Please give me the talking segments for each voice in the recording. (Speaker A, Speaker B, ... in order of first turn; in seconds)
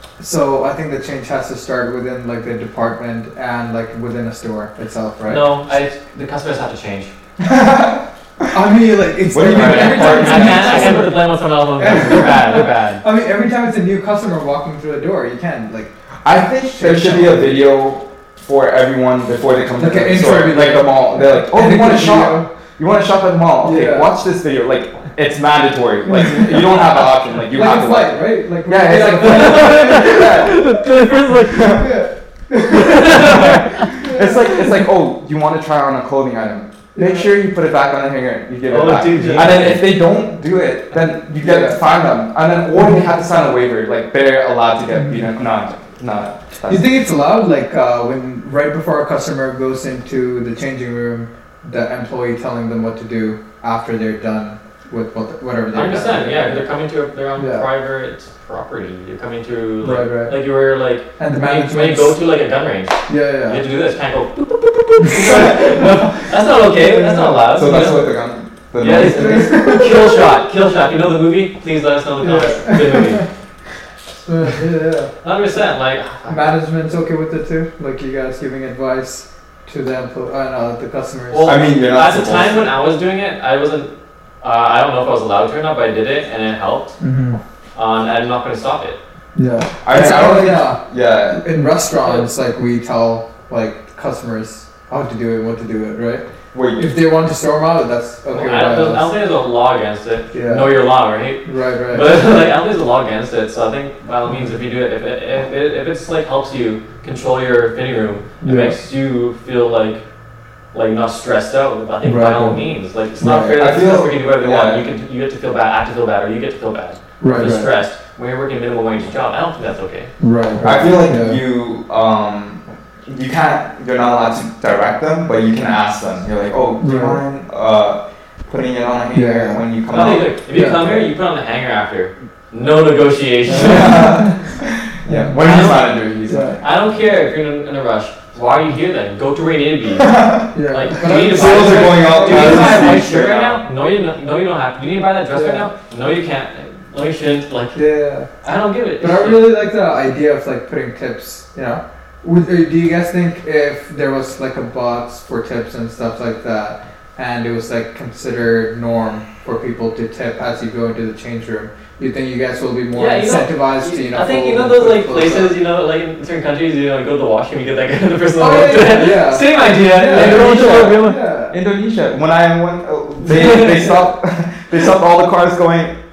Speaker A: 0.2-5.5, 8.5-11.2, 11.8-15.9, 16.7-17.6, 19.8-22.5, 23.6-24.1, 26.0-30.6, 31.7-34.9, 37.0-37.4, 39.1-39.7, 41.4-41.8, 44.9-45.3, 46.7-56.6, 57.4-57.7, 59.8-60.4, 61.2-62.2, 63.1-63.6, 65.2-65.7, 66.7-67.7, 68.9-70.3, 72.2-73.3, 74.2-75.1, 76.3-81.5, 87.0-87.4, 89.3-99.2, 100.3-100.7, 101.4-102.2, 104.3-104.5, 108.4-108.8, 112.0-112.7, 113.2-113.7, 117.2-117.7, 120.2-121.4, 126.8-127.2, 129.1-131.1, 133.5-134.4, 135.1-135.4, 136.3-136.6, 140.5-143.1, 145.3-145.7, 147.8-148.3, 149.0-165.6, 168.4-171.6
Speaker B: 5.3-7.2, 9.4-13.0, 29.2-31.9, 32.6-34.0, 38.7-39.9, 55.7-68.1, 68.8-73.3, 75.2-76.5, 81.3-87.0, 87.8-89.0, 98.3-110.1, 110.7-120.2, 129.9-134.4, 135.4-136.0, 136.6-149.6, 162.9-171.2, 173.2-174.0
Speaker C: 7.4-8.5, 9.3-11.2, 16.2-30.9, 31.5-31.9, 33.0-46.9, 67.5-69.9, 81.4-82.7, 89.8-91.5, 96.5-97.0, 113.2-114.9, 120.6-130.4, 133.5-136.7, 140.0-143.6, 170.1-176.0